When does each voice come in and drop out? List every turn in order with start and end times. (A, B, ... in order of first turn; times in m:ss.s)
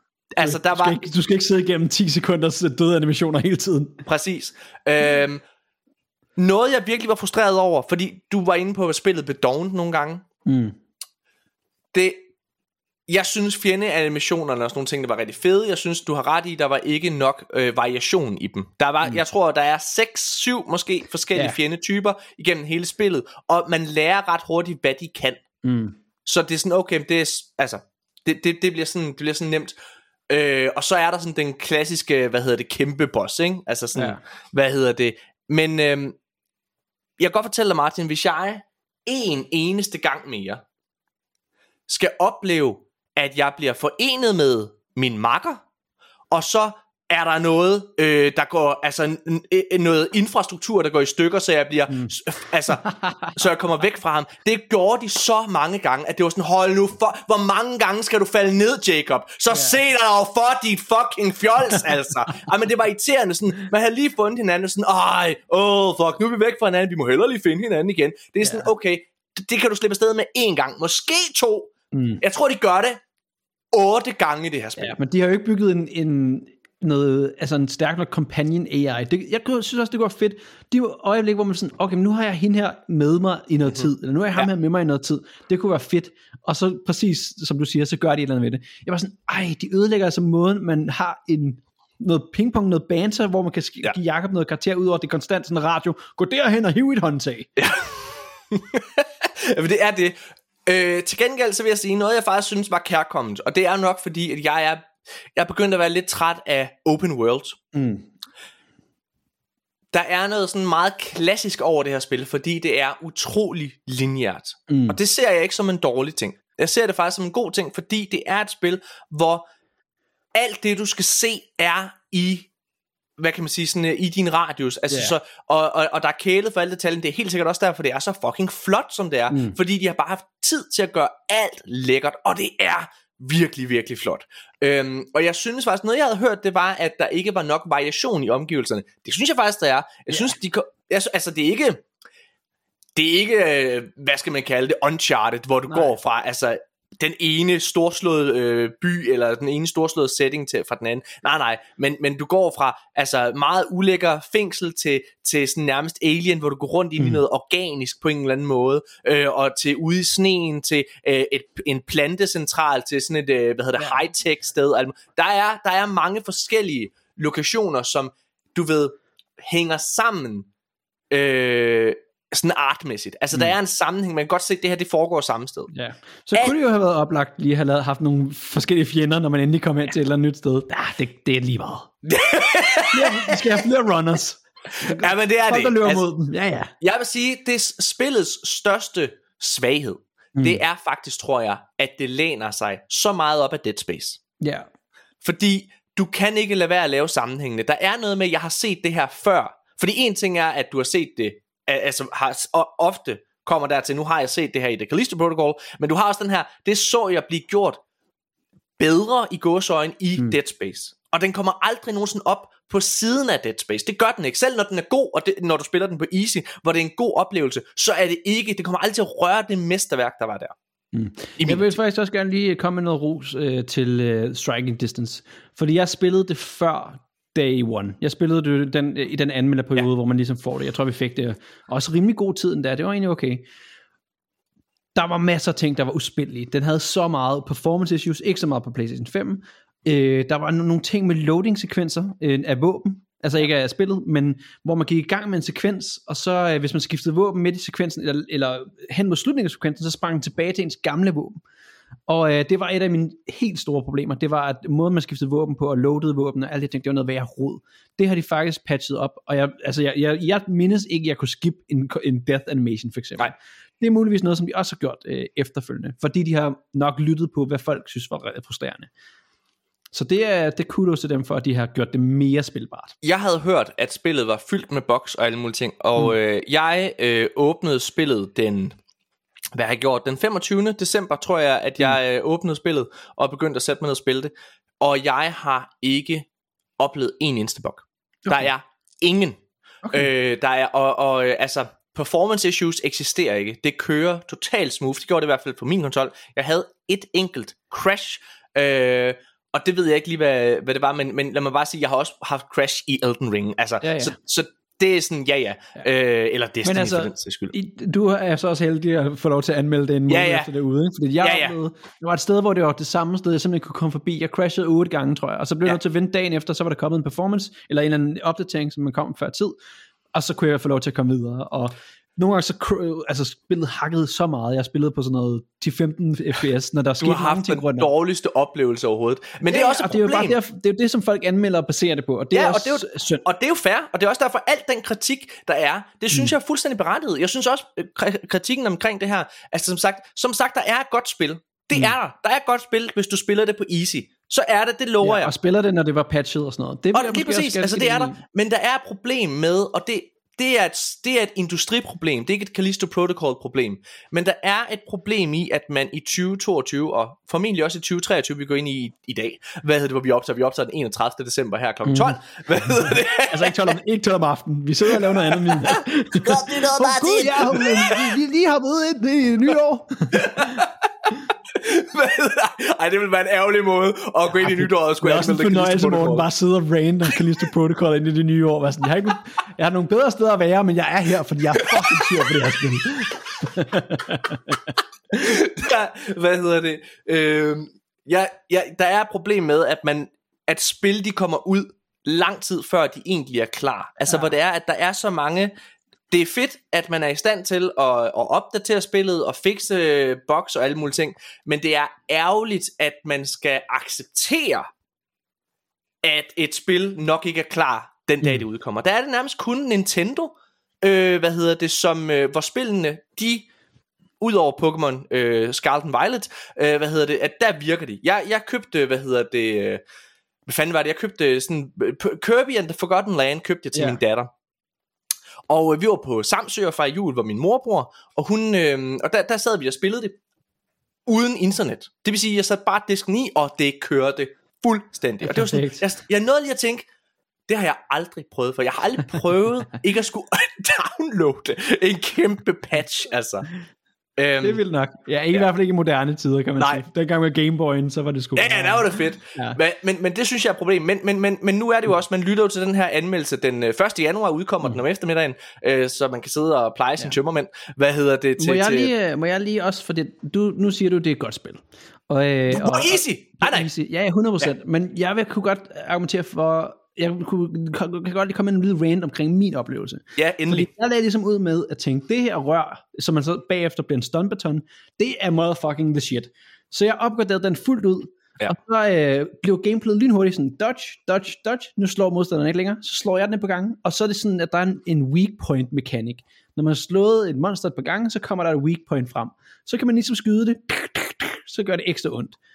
0:00.3-0:01.0 A
0:00.4-0:04.0 B
0:04.0-0:05.4 A
0:06.4-0:10.2 A
0:10.4-0:10.8 B
0:11.9-0:12.3 A
0:13.1-0:25.4 A
0:25.6-0:26.0 B
0:26.2-0:29.7 A
0:30.3-0:36.2 A
0:33.9-0:34.2 B
0:37.2-0:40.6 A
0:41.9-0:45.6 A
0:46.3-1:13.0 A
0:51.9-0:52.1 B
0:52.7-0:53.3 B
0:59.5-0:59.8 B
1:08.4-1:08.7 B
1:11.9-1:12.2 B
1:13.7-1:15.0 A
1:14.8-1:37.5 B
1:23.8-1:24.5 A
1:37.6-1:47.6 A
1:47.7-1:48.1 B
1:49.9-1:59.4 A
1:54.7-1:55.0 B
2:00.3-2:02.5 A
2:03.2-2:21.8 A
2:04.9-2:05.2 B
2:09.3-2:09.6 B
2:23.0-2:50.5 A
2:25.7-2:26.0 B
2:51.1-2:55.7 A
2:55.7-3:01.9 B
3:02.0-3:03.5 A
3:02.9-3:06.7 B
3:04.9-3:06.0 A
3:06.8-3:14.2 A
3:10.4-3:10.6 B
3:14.4-3:14.7 B
3:15.2-3:27.8 A
3:28.8-3:40.5 A
3:40.9-3:53.4 B
3:41.4-3:41.7 A
3:54.9-4:11.4 B
4:12.1-4:28.9 B
4:29.9-4:32.9 B
4:33.0-4:38.7 A
4:39.5-4:46.3 A
4:46.8-4:49.4 A
4:48.2-4:48.5 B
4:49.8-4:50.1 B
4:49.9-5:07.5 A
5:03.8-5:04.1 B
5:06.6-5:19.6 B
5:10.1-5:10.5 A
5:11.2-5:11.6 A
5:20.1-5:27.9 B
5:27.0-5:30.4 A
5:29.4-5:33.2 B
5:32.3-5:45.3 A
5:45.0-5:48.2 B
5:46.9-6:03.7 A
6:01.8-6:10.6 B
6:05.0-6:08.1 A
6:10.1-6:10.7 A
6:11.5-6:16.3 A
6:14.4-6:24.6 B
6:21.8-6:22.1 A
6:25.1-6:35.5 A
6:36.1-6:44.7 A
6:46.0-6:53.5 A
6:54.2-6:59.8 A
7:00.5-7:04.3 A
7:03.7-7:04.0 B
7:05.5-7:10.2 A
7:11.0-7:16.9 A
7:15.2-7:15.8 B
7:17.5-7:23.5 A
7:24.2-7:24.6 A
7:24.4-7:29.6 B
7:26.6-7:26.8 A
7:28.4-7:38.9 A
7:38.4-8:12.4 B
7:42.5-7:43.7 A
7:50.2-7:50.7 A